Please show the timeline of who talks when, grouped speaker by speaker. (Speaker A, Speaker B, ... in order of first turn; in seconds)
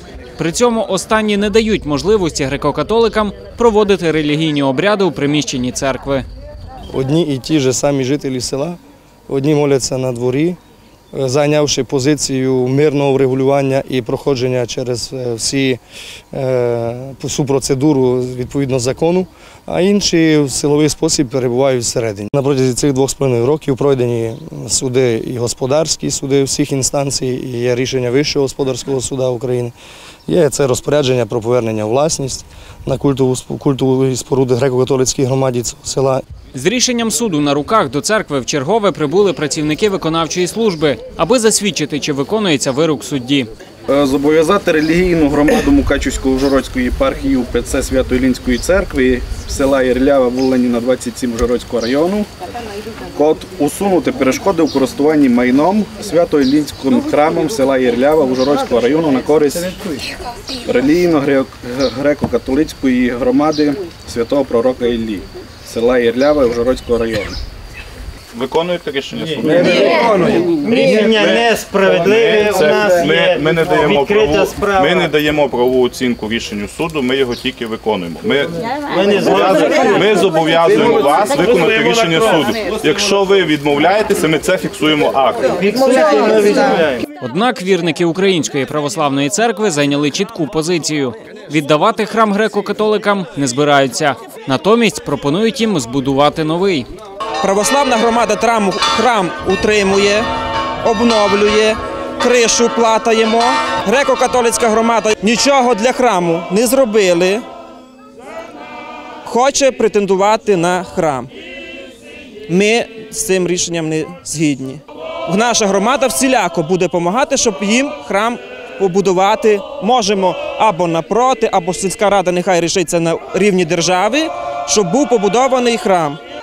Speaker A: 0.4-6.3, 36.5-43.5, 87.2-96.9
Speaker B: 6.9-10.6, 11.1-15.8, 16.3-29.7, 30.3-36.2
Speaker C: 43.9-52.3, 53.1-60.0, 60.6-67.4
Speaker D: 68.3-85.7
Speaker E: 69.8-75.0, 79.0-79.6, 85.7-87.0
Speaker F: 97.4-100.3, 100.8-107.4, 109.2-111.3, 112.5-126.2